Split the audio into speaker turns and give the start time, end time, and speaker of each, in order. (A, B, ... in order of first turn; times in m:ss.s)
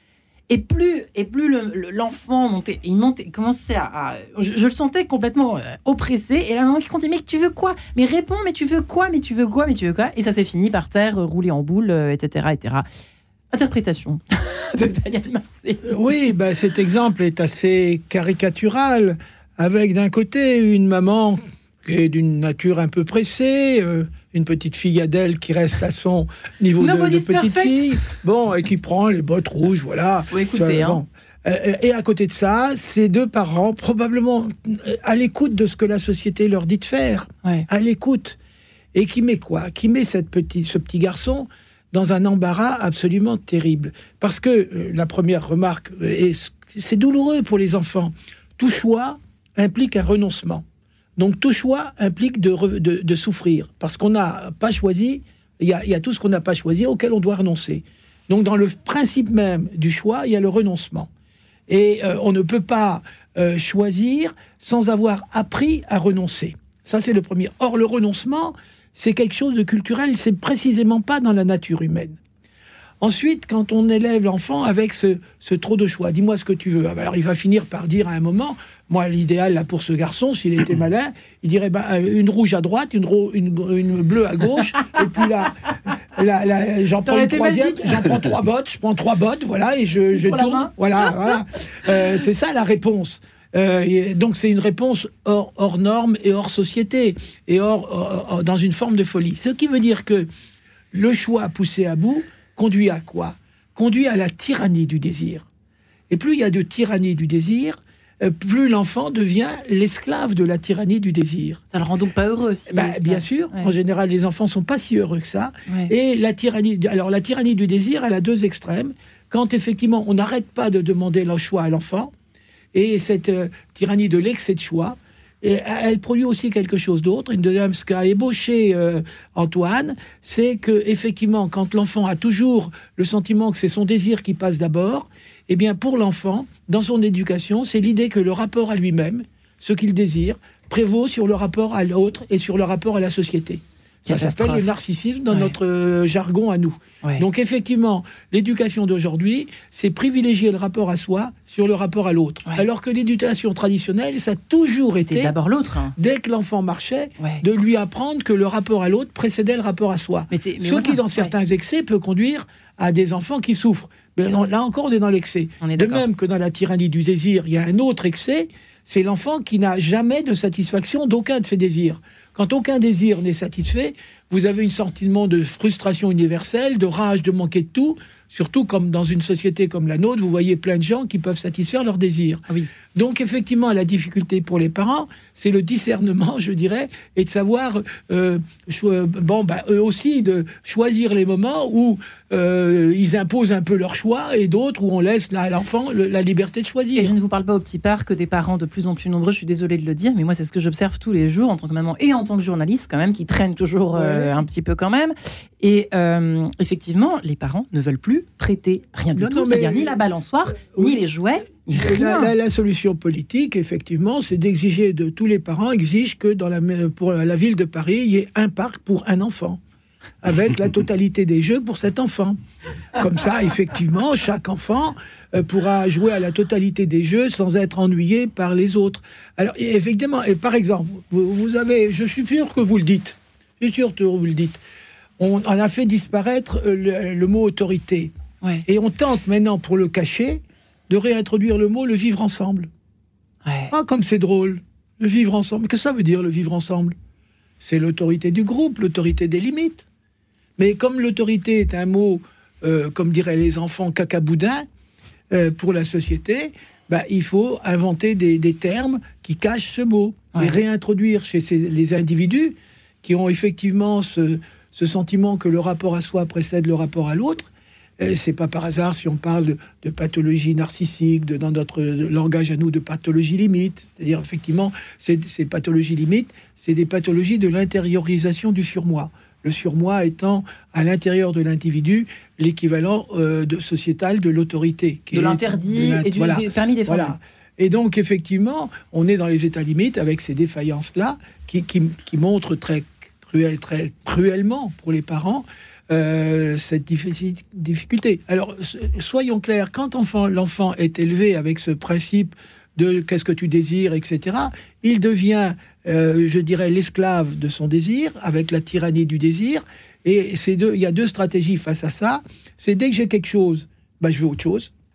0:00.5-0:12.8 A
0:13.5-0:16.0 A
0:15.8-0:38.4 B
0:26.8-0:27.8 A
0:30.3-0:31.0 A
0:38.9-0:50.6 B
0:51.2-1:01.1 B
1:01.7-1:12.2 B
1:13.0-1:40.3 B
1:27.0-1:28.3 A
1:30.1-1:31.3 A
1:40.9-1:45.5 B
1:46.1-1:51.6 B
1:51.7-1:53.7 A
1:52.7-2:02.1 B
2:02.7-2:35.3 B
2:24.1-2:24.7 A
2:25.3-2:25.6 A
2:35.1-2:36.0 A
2:36.0-3:17.1 B
2:40.3-2:41.3 A
2:45.6-2:46.0 A
3:17.0-3:32.3 A
3:23.9-3:24.4 B
3:29.1-3:30.0 B
3:30.7-3:31.0 B
3:31.7-3:39.6 B
3:40.2-3:42.4 B
3:42.9-3:54.6 B
3:55.2-3:58.1 B
3:58.6-4:02.7 B
4:03.4-4:03.7 A
4:03.7-4:06.9 B
4:07.6-4:09.8 B
4:10.6-4:14.7 B
4:15.3-5:14.7 B
4:45.1-4:47.2 A